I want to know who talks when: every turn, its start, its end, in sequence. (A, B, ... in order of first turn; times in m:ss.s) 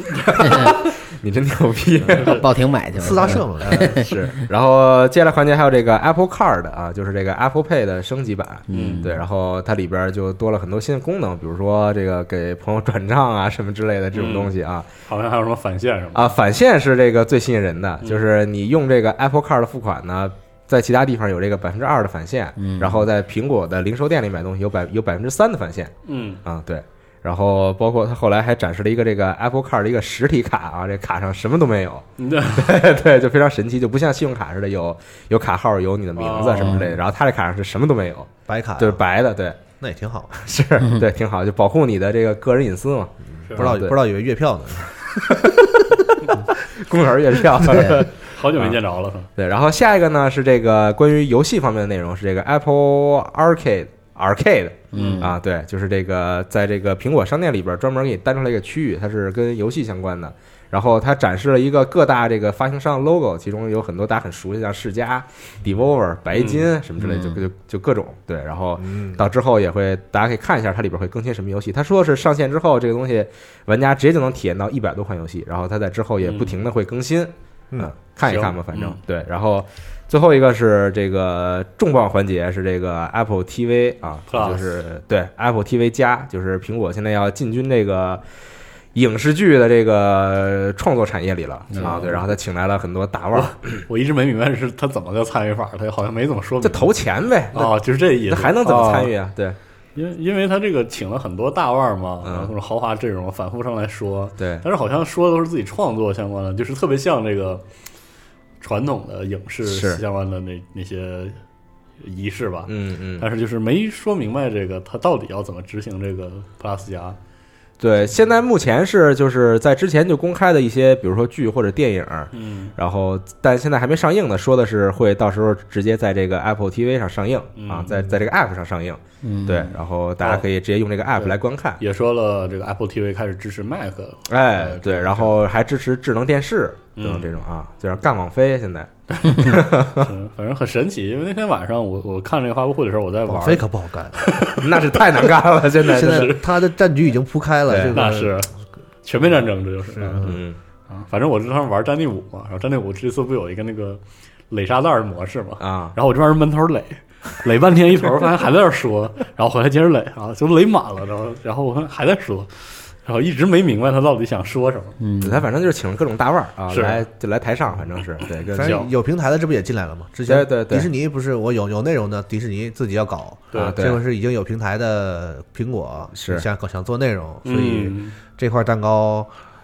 0:00.2-0:02.4 A
0:02.2-0:02.4 B
0:02.2-0:04.0 C
0:02.9-0:04.1 D
0:03.6-0:14.9 A
0:08.7-0:09.2 C
0:08.7-0:09.0 B
0:14.1-0:14.5 B
0:15.1-0:16.3 B
0:16.1-0:25.9 A
0:22.6-0:23.0 C
0:26.0-0:26.4 B
0:26.4-0:39.6 A
0:32.2-0:32.7 B
0:36.1-0:36.9 B
0:38.5-0:39.0 D
0:39.8-0:40.4 D
0:40.4-0:44.0 A
0:43.5-0:45.0 D
0:45.2-0:48.8 A
0:48.2-0:49.3 B
0:49.4-1:28.2 A
0:54.9-0:55.3 C
0:54.9-0:55.2 B
1:06.3-1:06.6 B
1:07.0-1:07.4 C
1:08.8-1:09.2 D
1:16.2-1:16.6 B
1:18.2-1:19.0 B
1:24.3-1:24.6 B
1:28.9-1:33.8 A
1:31.7-1:32.2 B
1:33.3-1:36.9 B
1:36.6-1:37.7 A
1:37.5-1:39.1 B
1:38.3-1:39.6 A
1:40.0-1:47.6 B
1:42.2-1:42.5 A
1:44.4-1:44.6 A
1:48.6-1:51.4 B
1:49.6-1:50.0 A
1:52.0-1:57.2 B
1:52.7-1:53.2 A
1:57.8-2:11.8 A
2:02.3-2:02.7 B
2:07.6-2:08.1 B
2:09.2-2:09.7 C
2:11.1-2:15.3 B
2:14.3-2:20.1 A
2:17.0-2:17.3 B
2:19.1-2:23.7 B
2:23.3-2:24.3 D
2:24.2-2:26.5 B
2:24.5-2:26.4 A
2:25.9-2:28.4 D
2:27.7-2:28.0 A
2:27.9-2:28.5 B
2:29.0-2:30.3 B
2:29.9-2:30.4 D
2:30.2-2:30.6 A
2:30.9-2:45.0 B
2:35.6-2:36.0 A
2:45.0-2:45.4 C
2:45.2-2:48.8 A
2:46.7-2:47.0 B
2:48.5-2:59.3 D
2:48.6-2:48.9 B
2:50.3-2:50.9 A
2:53.5-2:54.0 A
2:56.2-2:56.4 A
2:57.4-2:58.1 B